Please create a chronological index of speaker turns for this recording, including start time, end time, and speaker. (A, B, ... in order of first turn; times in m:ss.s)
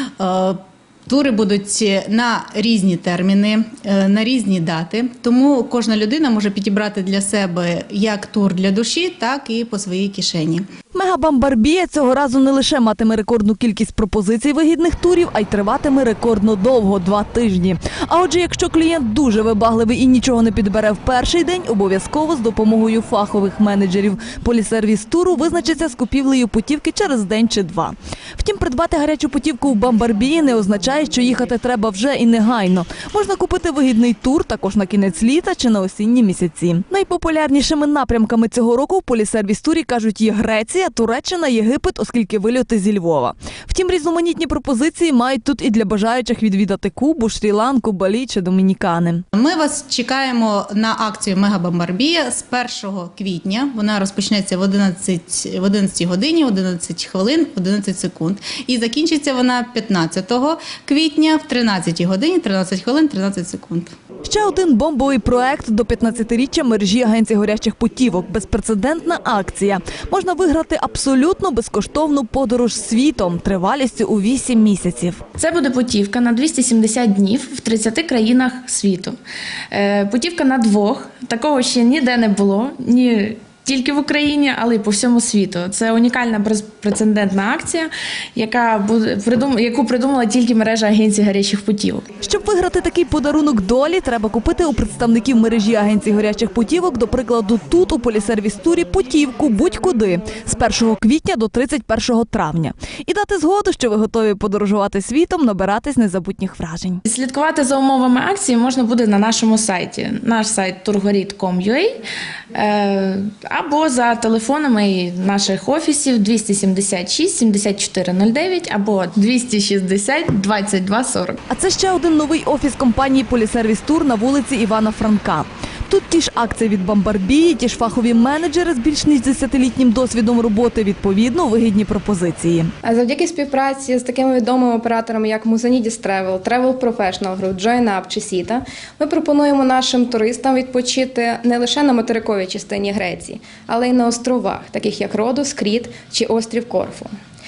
0:00.2-0:10.7 A
0:10.9-0:49.2 B
0:49.3-1:03.9 A
1:04.2-1:15.2 B
1:15.4-1:19.2 C
1:19.7-1:32.1 C
1:32.2-1:47.0 B
1:47.1-1:52.0 C
1:52.5-2:01.4 C
2:01.5-2:12.7 B
2:12.8-2:27.1 D